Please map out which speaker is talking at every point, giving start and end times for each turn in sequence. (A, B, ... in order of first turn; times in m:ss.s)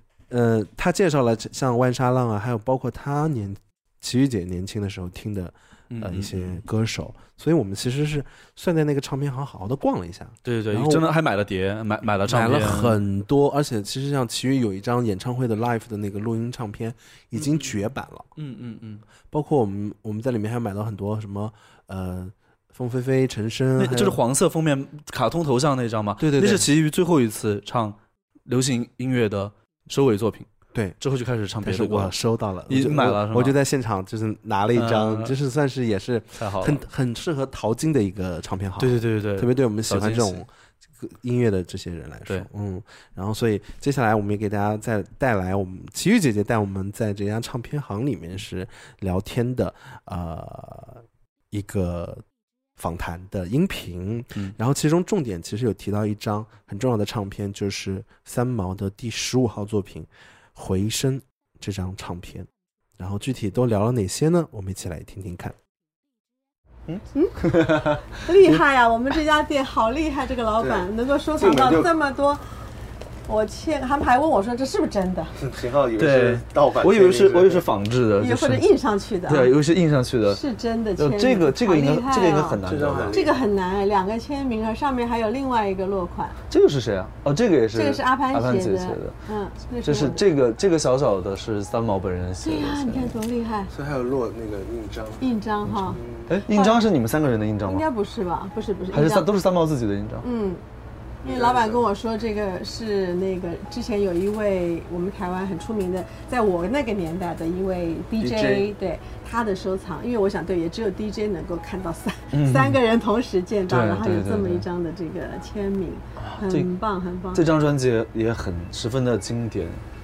0:00.3-0:11.0 A
0:05.9-0:06.6 B
0:10.5-0:13.0 B
0:12.3-0:18.3 A
0:18.4-0:19.0 B
0:19.3-0:24.2 A
0:23.8-0:30.5 B
0:26.2-0:26.7 A
0:31.0-0:32.2 B
0:31.6-0:52.2 A
0:32.7-0:33.6 B
0:34.8-0:35.4 B
0:36.4-0:36.8 B
0:38.8-0:40.4 B
0:52.8-1:05.6 A
1:06.9-1:08.6 C
1:07.2-1:12.4 D
1:10.6-1:11.9 E
1:13.3-1:15.4 D
1:15.4-1:17.7 E
1:16.0-1:18.7 C
1:18.2-1:19.6 D
1:19.3-1:20.4 C
1:20.2-1:26.4 D
1:21.0-1:23.2 C
1:22.6-1:23.4 E
1:26.5-1:29.2 C
1:27.7-1:30.2 D
1:29.8-1:33.2 C
1:32.4-1:33.7 D
1:33.7-1:35.2 E
1:35.2-1:36.9 D
1:35.7-1:37.9 C
1:35.9-1:36.4 E
1:37.7-1:39.4 D
1:38.9-1:40.3 C
1:40.2-1:40.6 D
1:41.2-1:41.8 E
1:41.3-1:57.5 D
1:48.2-1:48.7 E
1:52.3-1:52.8 C
1:53.7-1:54.6 C
1:56.2-1:56.7 C
1:57.3-1:59.8 C